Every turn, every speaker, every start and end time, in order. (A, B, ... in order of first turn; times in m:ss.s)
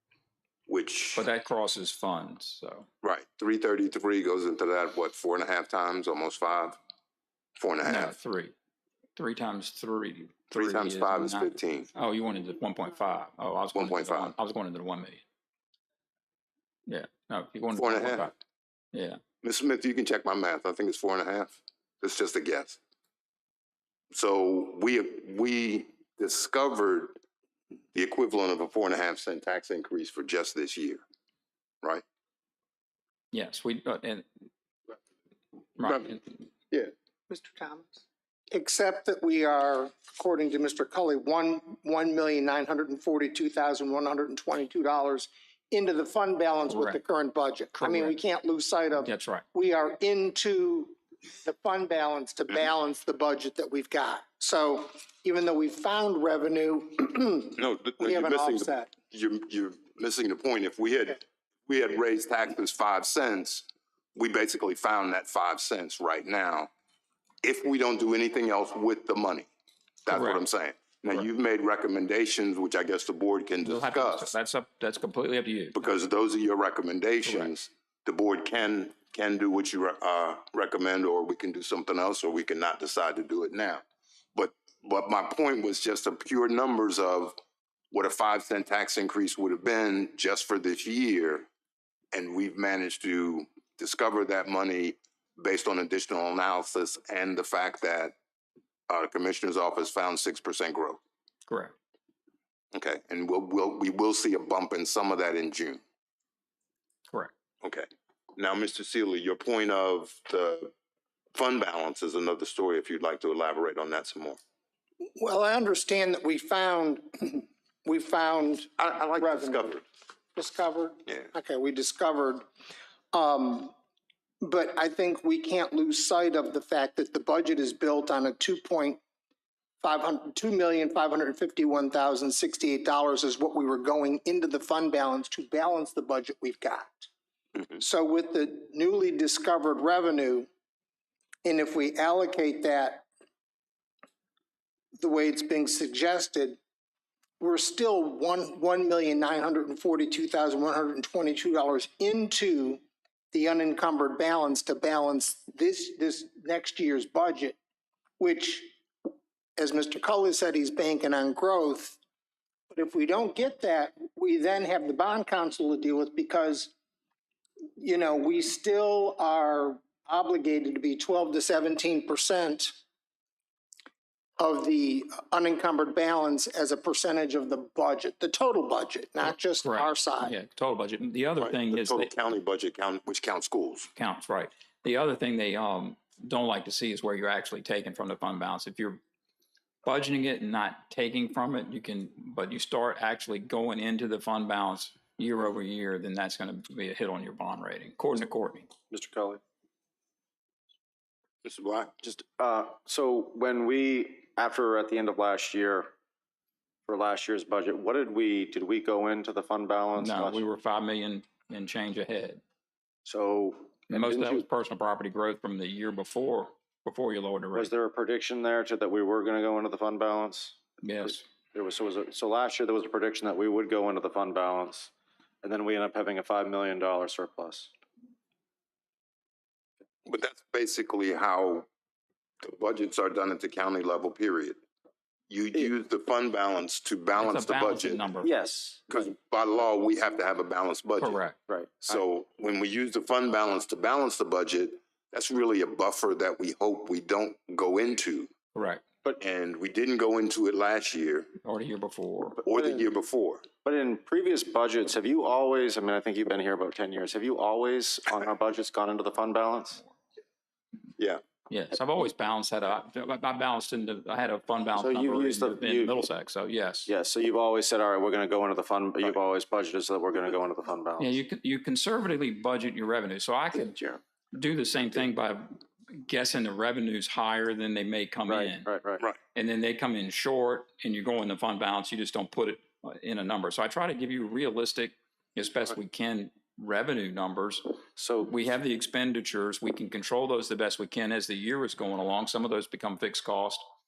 0:00.7-0:01.3 A
0:01.2-0:02.9 B
0:03.0-0:06.8 A
0:07.6-0:08.1 A
0:07.8-0:08.5 B
0:09.2-0:15.2 B
0:10.5-0:11.9 A
0:13.7-0:14.3 A
0:16.9-0:18.3 B
0:17.7-0:18.3 A
0:18.9-0:19.2 B
0:19.4-0:22.8 A
0:24.1-0:27.2 A
0:27.9-0:31.0 A
0:33.3-0:34.3 B
0:35.8-0:36.2 B
0:35.8-0:36.1 A
0:37.3-0:58.9 C
0:46.7-0:47.0 B
0:47.8-0:48.1 B
0:49.0-0:49.4 B
0:57.6-1:06.7 A
1:07.4-1:09.5 A
1:10.0-1:14.3 A
1:10.1-1:10.4 B
1:13.6-1:15.8 B
1:15.7-1:23.8 A
1:17.2-1:17.5 B
1:24.3-1:27.4 A
1:27.9-1:31.5 A
1:32.1-1:38.1 A
1:38.9-1:41.0 A
1:41.5-1:41.7 B
1:42.7-1:45.8 A
1:47.6-1:50.7 A
1:51.3-1:54.4 A
1:55.2-1:59.7 C
1:58.8-1:59.8 A
2:00.3-2:02.4 C
2:03.1-2:03.7 C
2:04.4-2:09.0 C
2:09.8-2:17.1 C
2:17.8-2:20.5 C
2:21.4-2:23.0 C
2:25.0-2:26.6 C
2:27.4-2:32.8 C
2:33.3-2:37.6 C
2:38.2-2:38.7 C
2:39.6-2:42.0 C
2:42.7-2:46.7 C
2:47.8-2:52.7 C
2:54.4-3:00.3 C
2:59.2-3:02.1 B
3:01.4-3:03.9 A
3:04.0-3:09.0 B
3:09.8-3:18.7 B
3:18.9-3:19.4 D
3:21.4-3:21.9 A
3:22.0-3:25.9 D
3:26.8-3:30.4 D
3:30.0-3:32.4 B
3:33.0-3:34.4 D
3:33.9-3:37.7 B
3:37.5-3:44.9 D
3:40.8-3:41.2 B
3:45.4-3:47.7 D
3:50.0-3:51.7 A
3:52.4-3:54.6 A
3:55.3-3:58.1 A
3:57.2-3:58.3 B
3:58.2-3:59.1 D
3:58.9-4:01.2 A
4:01.0-4:01.4 B
4:01.5-4:02.0 D
4:01.8-4:08.3 A
4:08.5-4:08.8 B
4:09.2-4:11.3 A
4:11.4-4:12.4 B
4:12.4-4:13.4 A
4:12.5-4:12.9 D
4:13.6-4:19.8 D
4:21.0-4:21.2 A
4:21.5-4:26.9 B
4:24.7-4:26.1 D
4:26.9-4:31.2 D
4:31.0-4:38.7 B
4:38.3-4:39.0 D
4:39.3-4:53.6 B
4:48.0-4:48.4 D